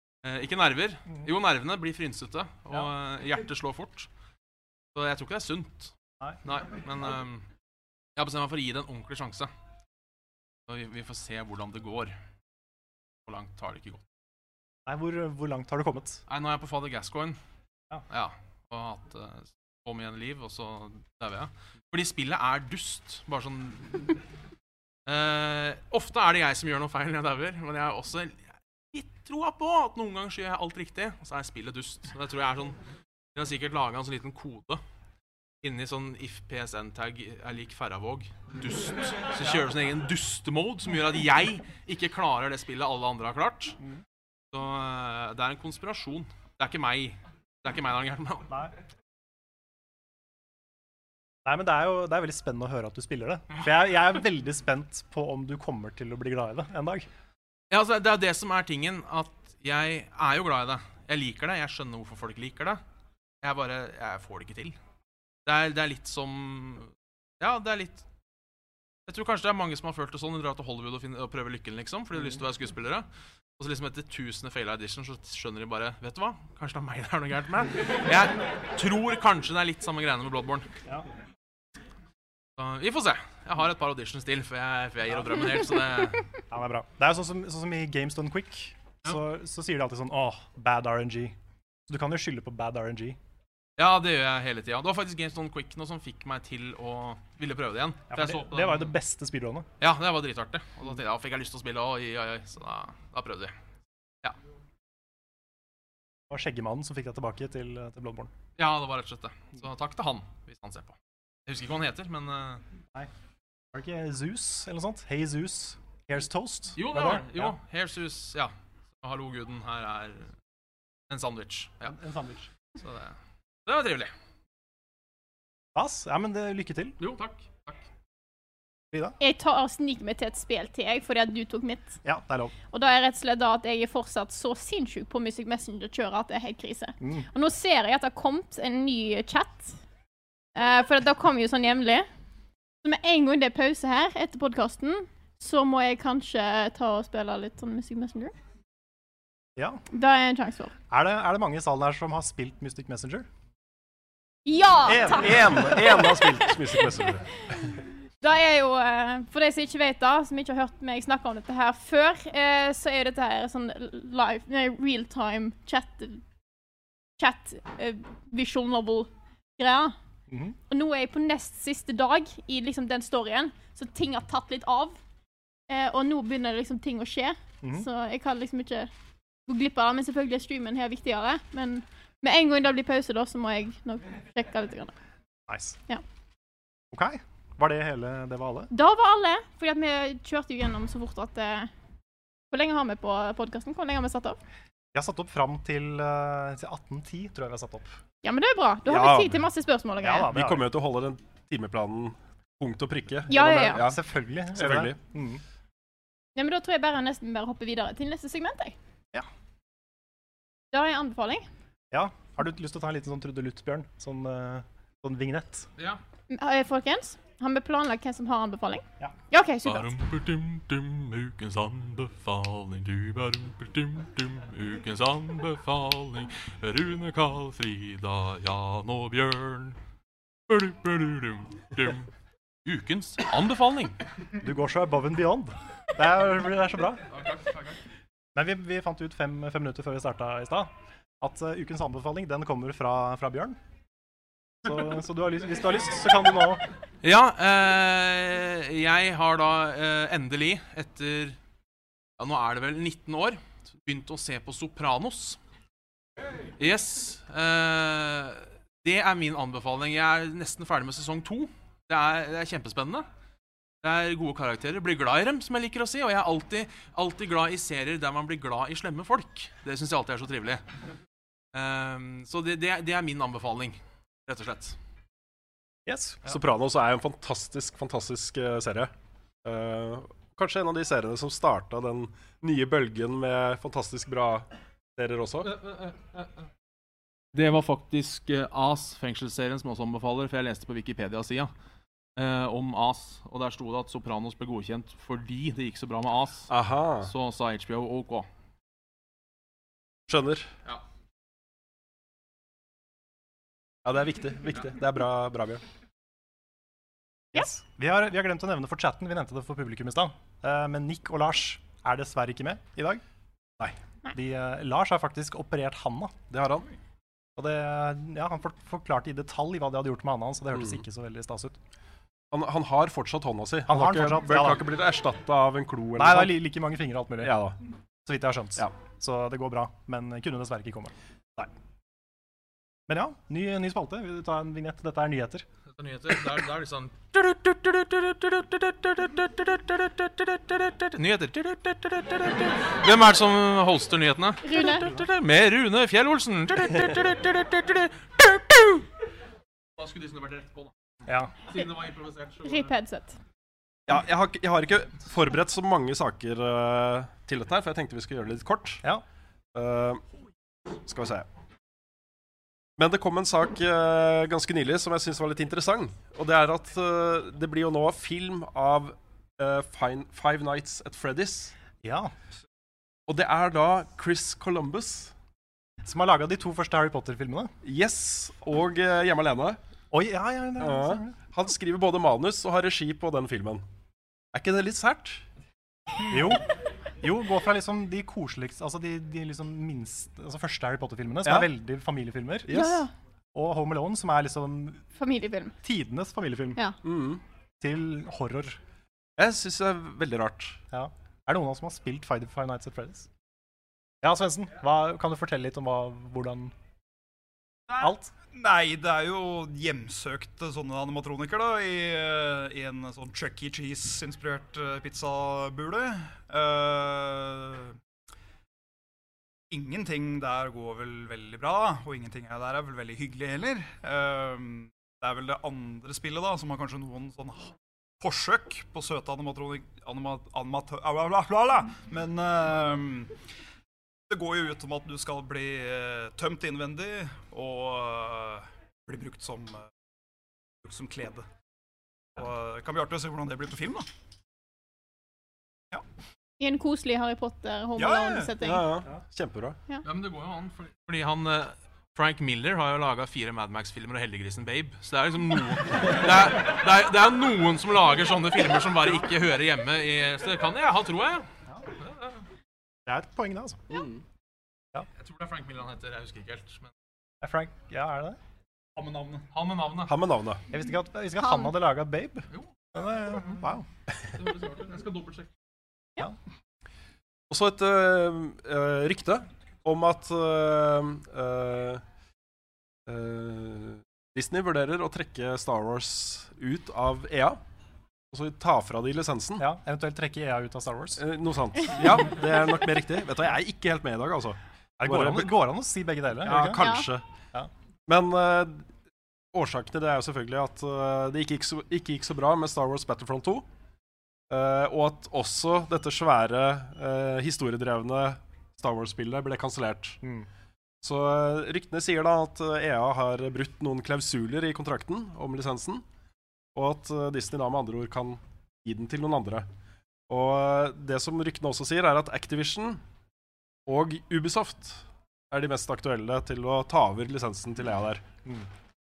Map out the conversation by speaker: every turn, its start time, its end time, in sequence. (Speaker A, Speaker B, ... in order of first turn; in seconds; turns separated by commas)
Speaker A: 0.2-4.1, Speaker A: 4.9-7.5, Speaker A: 8.2-9.5, Speaker A: 10.7-12.1, Speaker A: 13.2-14.0, Speaker B: 14.8-16.2, Speaker A: 16.3-17.4, Speaker A: 18.1-24.1, Speaker A: 25.1-32.8, Speaker A: 33.3-34.8, Speaker A: 35.6-43.8, Speaker A: 44.5-48.5, Speaker B: 51.4-57.1, Speaker A: 57.7-62.8, Speaker A: 63.4-64.8, Speaker A: 65.5-68.0, Speaker A: 69.1-73.0, Speaker A: 73.6-80.7, Speaker A: 82.6-86.2, Speaker B: 86.5-91.3, Speaker B: 91.9-93.2, Speaker A: 93.8-98.9, Speaker B: 98.1-99.7, Speaker A: 99.8-103.5, Speaker B: 106.3-108.3, Speaker A: 108.6-110.9, Speaker A: 111.5-112.6, Speaker B: 113.7-117.5, Speaker A: 116.8-120.3, Speaker A: 121.1-121.9, Speaker B: 121.8-122.5, Speaker A: 122.8-123.1, Speaker A: 123.7-124.1, Speaker B: 125.7-127.0, Speaker A: 127.0-127.8, Speaker C: 129.2-132.0, Speaker B: 132.0-132.5, Speaker C: 132.7-139.8, Speaker B: 137.0-137.3, Speaker C: 140.5-142.1, Speaker C: 142.8-148.3, Speaker B: 149.6-149.8, Speaker C: 149.9-150.7, Speaker B: 150.9-153.2, Speaker C: 154.4-157.0, Speaker B: 154.9-156.1, Speaker D: 154.9-157.5, Speaker C: 157.6-166.2, Speaker C: 167.2-169.9, Speaker B: 170.3-170.6, Speaker C: 170.7-175.0, Speaker C: 175.7-178.9, Speaker C: 179.5-184.9, Speaker B: 185.5-185.8, Speaker B: 186.9-188.7, Speaker C: 188.7-191.7, Speaker C: 192.5-194.4, Speaker B: 194.9-197.9, Speaker C: 198.2-200.3, Speaker D: 198.8-199.4, Speaker B: 200.0-200.7, Speaker D: 200.3-204.0, Speaker C: 203.3-203.8, Speaker B: 203.4-205.4, Speaker D: 204.5-205.0, Speaker C: 206.3-208.7, Speaker C: 210.7-211.4, Speaker B: 211.9-215.7, Speaker C: 216.3-219.9, Speaker A: 219.6-229.8, Speaker A: 230.5-232.1, Speaker A: 232.6-234.0, Speaker B: 234.4-237.0, Speaker A: 237.1-237.8, Speaker B: 238.3-240.7, Speaker B: 241.2-243.6, Speaker B: 244.6-246.6, Speaker A: 247.0-251.4, Speaker A: 252.2-255.4, Speaker A: 256.6-263.1, Speaker A: 263.8-270.6, Speaker A: 271.5-274.8, Speaker B: 275.9-276.2, Speaker D: 276.2-278.9, Speaker D: 279.4-285.5, Speaker A: 285.4-286.3, Speaker A: 287.3-291.5, Speaker A: 292.1-296.5, Speaker D: 296.5-297.1, Speaker A: 297.0-298.3, Speaker D: 300.1-300.5, Speaker D: 303.8-305.6, Speaker B: 307.3-313.0, Speaker B: 314.1-316.1, Speaker D: 316.3-316.6, Speaker B: 317.4-321.6, Speaker D: 320.5-320.8, Speaker D: 322.3-326.4, Speaker B: 323.7-324.7, Speaker B: 326.0-327.4, Speaker D: 327.2-327.6, Speaker B: 328.0-330.9, Speaker B: 332.9-335.4, Speaker A: 335.7-348.9, Speaker C: 344.4-344.9, Speaker A: 349.8-350.7, Speaker B: 351.1-351.3, Speaker A: 351.5-352.7, Speaker C: 352.4-353.2, Speaker D: 353.9-358.8, Speaker D: 359.5-360.0, Speaker D: 360.9-361.3, Speaker D: 362.8-371.5, Speaker B: 371.8-372.1, Speaker D: 373.1-375.1, Speaker B: 375.8-377.5, Speaker D: 377.6-379.6, Speaker B: 379.9-381.1, Speaker D: 380.6-383.6, Speaker D: 384.3-385.2, Speaker B: 386.1-386.4, Speaker B: 387.0-392.6, Speaker D: 391.2-391.5, Speaker D: 392.4-392.9, Speaker C: 392.5-392.9, Speaker B: 393.3-394.8, Speaker C: 394.9-395.5, Speaker B: 395.6-396.6, Speaker D: 396.8-397.2, Speaker B: 397.6-398.6, Speaker D: 399.2-400.6, Speaker B: 400.7-403.1, Speaker B: 404.0-406.5, Speaker E: 407.7-417.8, Speaker B: 407.8-408.1, Speaker E: 419.5-433.1, Speaker E: 434.1-439.7, Speaker E: 440.6-441.2, Speaker E: 442.1-443.9, Speaker C: 446.4-448.6, Speaker E: 447.8-448.3, Speaker D: 448.4-449.6, Speaker A: 449.8-461.3, Speaker A: 461.8-462.1, Speaker B: 462.9-463.6, Speaker A: 465.0-466.7, Speaker B: 467.2-468.2, Speaker E: 468.8-469.3, Speaker A: 469.3-469.9, Speaker D: 469.9-470.4, Speaker B: 470.5-473.6, Speaker A: 474.1-475.3, Speaker D: 477.3-481.8, Speaker D: 482.9-487.4, Speaker D: 488.1-489.5, Speaker B: 489.4-491.0, Speaker D: 491.0-495.4, Speaker B: 494.8-496.7, Speaker D: 496.2-497.1, Speaker C: 496.6-496.9, Speaker D: 497.9-498.7, Speaker D: 499.3-503.4, Speaker D: 504.3-510.0, Speaker B: 510.0-510.3, Speaker D: 510.8-515.8, Speaker D: 516.5-519.5, Speaker D: 520.1-522.8, Speaker D: 523.7-528.0